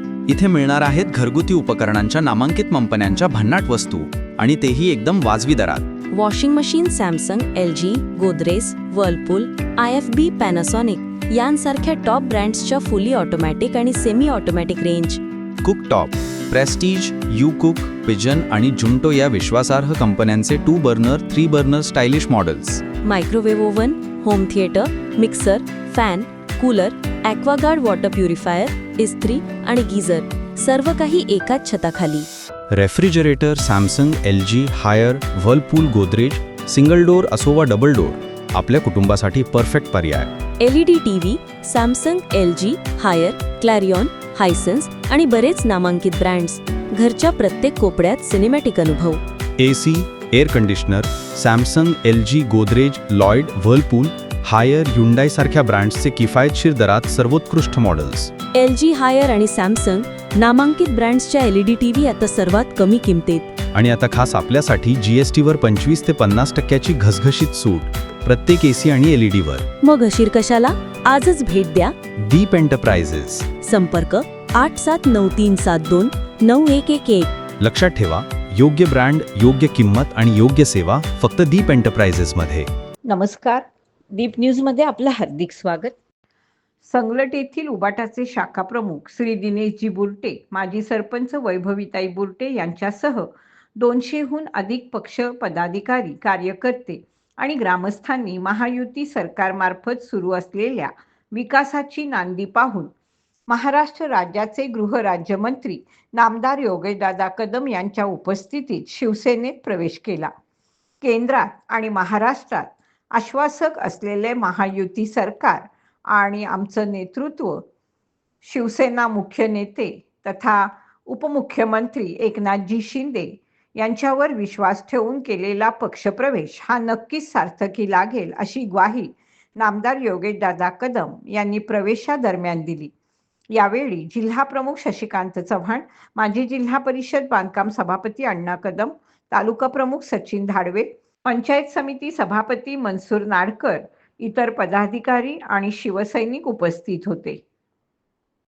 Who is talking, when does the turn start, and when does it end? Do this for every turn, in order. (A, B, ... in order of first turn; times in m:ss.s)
0:00.3-0:05.9 A
0:06.1-0:15.2 B
0:15.6-0:22.8 A
0:23.0-0:32.3 B
0:32.7-0:40.3 A
0:40.6-0:49.2 B
0:49.6-0:58.3 A
0:58.5-1:03.6 B
1:03.7-1:09.7 A
1:09.8-1:11.9 B
1:12.2-1:13.5 A
1:13.6-1:17.3 B
1:17.6-1:22.7 A
1:23.1-1:26.0 C
1:26.8-1:42.9 C
1:43.5-1:50.3 C
1:51.0-1:57.6 C
1:58.4-2:12.9 C
2:13.5-2:27.4 C